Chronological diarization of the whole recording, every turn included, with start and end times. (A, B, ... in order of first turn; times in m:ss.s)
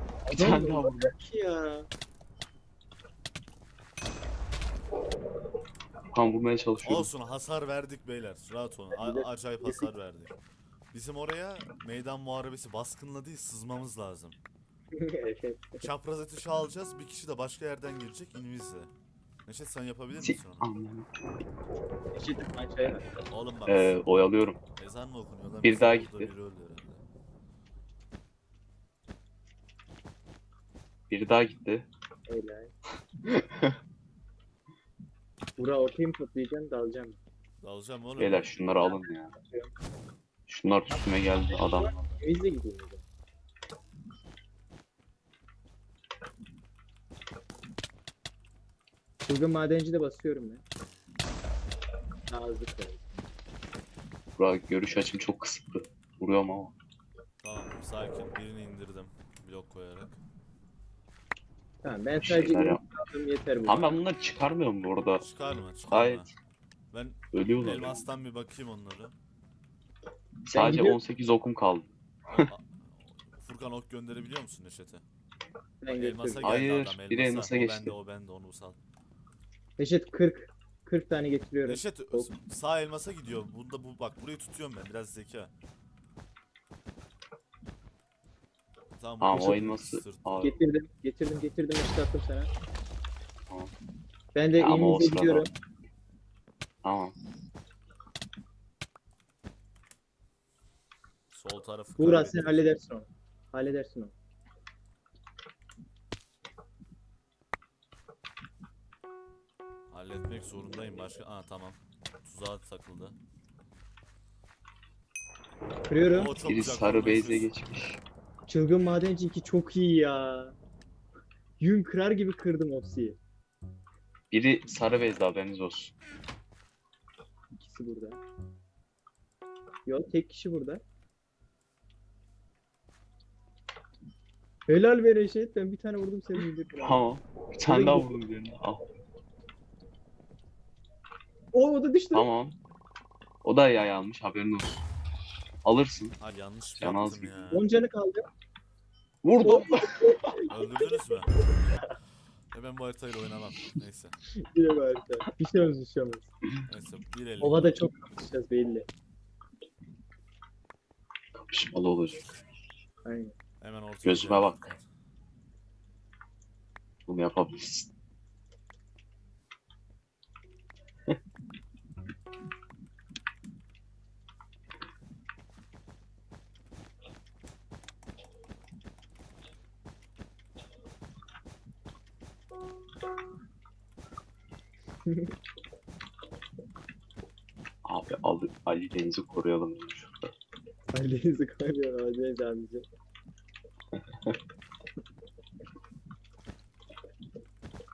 0:00.3-0:01.9 A
0:00.3-0:01.2 B
0:06.1-0:07.1 B
0:06.8-0:10.4 C
0:08.9-0:09.9 A
0:10.9-0:14.4 C
0:15.0-0:15.8 A
0:15.8-0:18.9 C
0:19.5-0:20.7 C
0:20.2-0:21.1 B
0:22.1-0:23.1 A
0:23.3-0:24.0 C
0:23.7-0:24.6 B
0:24.8-0:27.0 C
0:25.6-0:26.3 B
0:31.1-0:31.9 B
0:32.3-0:32.7 A
0:33.3-0:33.8 B
0:35.6-0:37.2 A
0:37.6-0:38.5 C
0:38.2-0:39.4 B
0:38.8-0:39.7 A
0:40.5-0:42.1 B
0:40.9-0:43.0 A
0:49.3-0:50.6 A
0:52.3-0:53.0 A
0:54.4-0:56.8 B
0:57.4-1:00.2 C
1:01.8-1:04.0 A
1:02.2-1:02.8 B
1:03.7-1:05.2 B
1:05.2-1:06.3 C
1:05.9-1:06.3 B
1:06.9-1:09.1 C
1:07.3-1:08.0 B
1:10.5-1:12.5 B
1:10.5-1:11.0 A
1:12.3-1:15.0 C
1:15.8-1:16.4 A
1:15.9-1:18.8 C
1:16.4-1:17.9 B
1:19.8-1:22.3 A
1:21.7-1:25.5 C
1:29.0-1:30.6 C
1:29.2-1:30.5 B
1:30.4-1:32.5 A
1:34.4-1:35.5 A
1:34.6-1:35.5 B
1:36.8-1:37.2 B
1:41.3-1:42.7 C
1:42.0-1:44.1 A
1:49.9-1:53.2 C
1:55.9-1:56.3 A
1:56.1-1:57.5 C
1:56.4-1:58.0 B
1:58.5-2:00.6 A
2:01.6-2:03.2 A
2:04.3-2:05.9 B
2:07.6-2:08.2 A
2:09.9-2:10.8 A
2:14.7-2:17.1 A
2:16.8-2:18.8 B
2:17.7-2:18.2 A
2:21.5-2:22.3 A
2:22.1-2:22.6 B
2:23.4-2:24.8 B
2:25.6-2:26.2 B
2:26.2-2:27.7 C
2:26.8-2:27.5 B
2:27.5-2:28.3 A
2:29.2-2:30.3 B
2:29.4-2:31.2 A
2:30.5-2:31.3 C
2:32.5-2:34.1 C
2:34.4-2:36.3 A
2:36.7-2:37.7 C
2:37.4-2:38.9 A
2:41.3-2:42.3 B
2:43.0-2:43.3 A
2:43.6-2:44.8 C
2:44.0-2:44.7 B
2:47.1-2:47.9 B
3:05.1-3:05.3 A
3:07.8-3:10.4 B
3:10.9-3:12.8 A